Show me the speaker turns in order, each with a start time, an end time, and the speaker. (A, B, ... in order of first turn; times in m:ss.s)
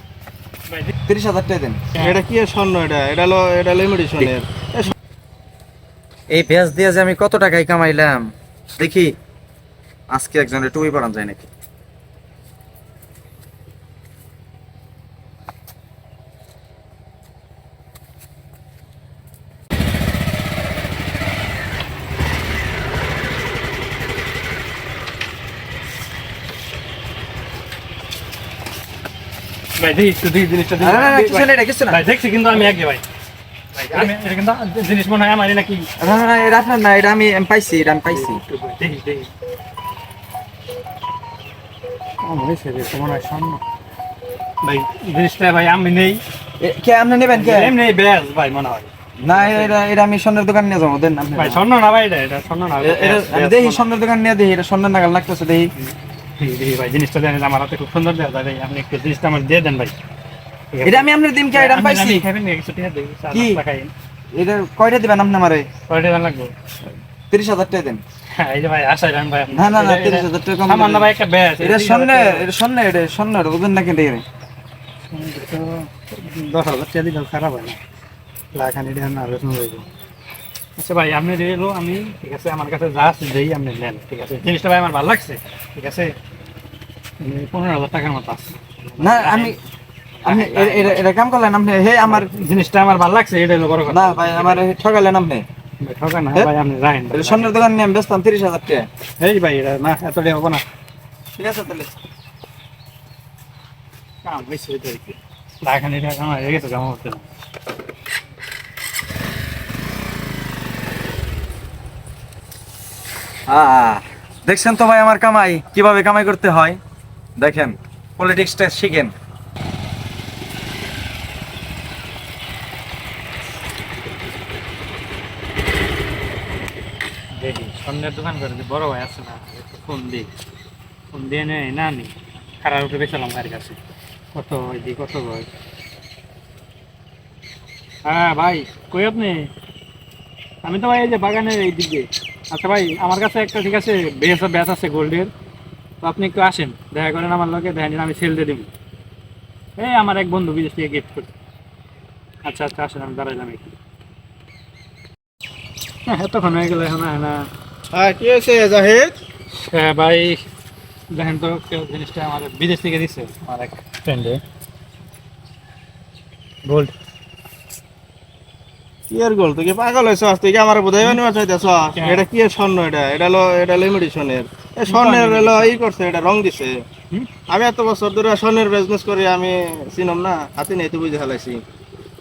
0:01.1-0:01.8 A
0:01.9-0:02.2 B
0:02.0-0:04.9 C
0:06.3-0:08.2 A
0:08.8-0:09.1 A
0:10.1-0:11.5 A
0:29.8-0:33.0 B
0:30.8-0:32.0 A
0:33.7-0:35.9 B
0:36.0-0:38.2 A
0:38.0-0:39.3 B
0:42.2-0:43.6 B
0:44.6-0:46.2 B
0:46.6-0:47.7 A
0:47.3-0:49.8 B
0:49.2-0:51.6 A
0:51.3-0:53.9 B
0:52.8-0:55.7 A
0:55.8-0:59.9 B
1:00.7-1:03.9 B
1:00.8-1:02.2 A
1:04.3-1:05.7 A
1:05.9-1:06.5 B
1:07.3-1:08.0 A
1:08.4-1:12.5 B
1:09.6-1:11.0 A
1:11.6-1:14.2 A
1:15.1-1:17.8 B
1:18.5-1:19.8 B
1:20.8-1:26.1 B
1:27.2-1:29.6 B
1:29.0-1:29.5 A
1:30.2-1:31.1 B
1:30.2-1:32.2 A
1:32.0-1:34.7 B
1:33.9-1:35.4 A
1:35.8-1:37.5 B
1:37.1-1:38.9 A
1:39.2-1:40.6 B
1:41.4-1:41.9 A
1:44.2-1:47.2 B
1:53.5-1:56.8 A
1:57.4-1:59.1 A
2:07.4-2:10.3 B
2:11.1-2:13.8 B
2:14.3-2:15.5 B
2:18.0-2:19.5 B
2:20.6-2:25.3 B
2:26.0-2:28.7 B
2:29.8-2:31.3 B
2:32.4-2:33.7 B
2:36.0-2:37.5 B
2:37.9-2:39.2 C
2:39.5-2:40.4 B
2:41.1-2:44.4 B
2:46.6-2:46.9 B
2:49.1-2:56.8 C
2:52.0-2:52.2 B
2:54.9-2:55.8 B
2:57.5-3:01.6 C